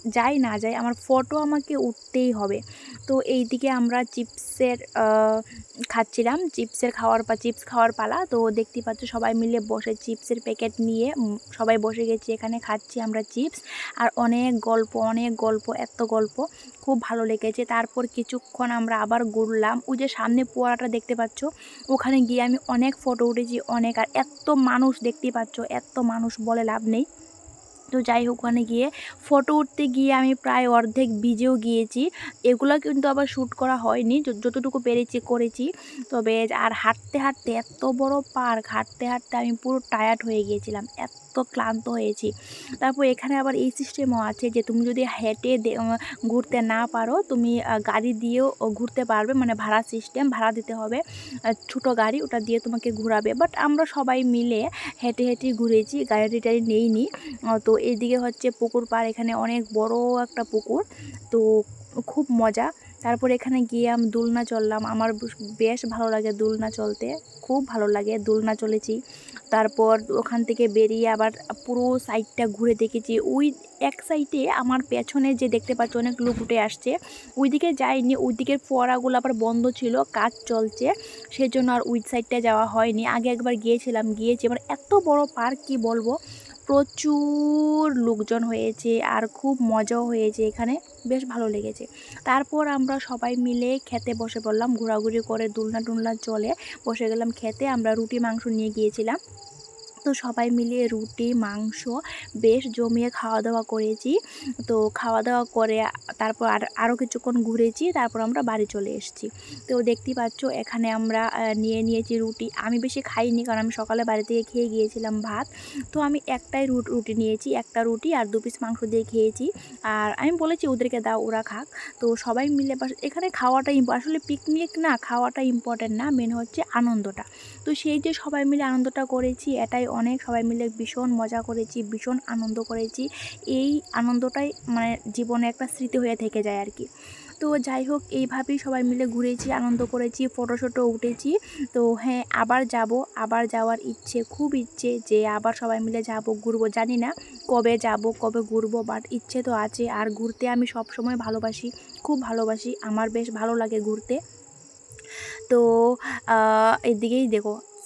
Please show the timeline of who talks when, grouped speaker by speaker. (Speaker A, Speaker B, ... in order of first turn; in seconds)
Speaker A: 0.2-27.1, 27.9-51.0, 51.5-61.5, 62.1-69.0, 69.5-86.1, 86.7-99.2, 100.1-136.9, 137.4-154.2, 155.5-157.5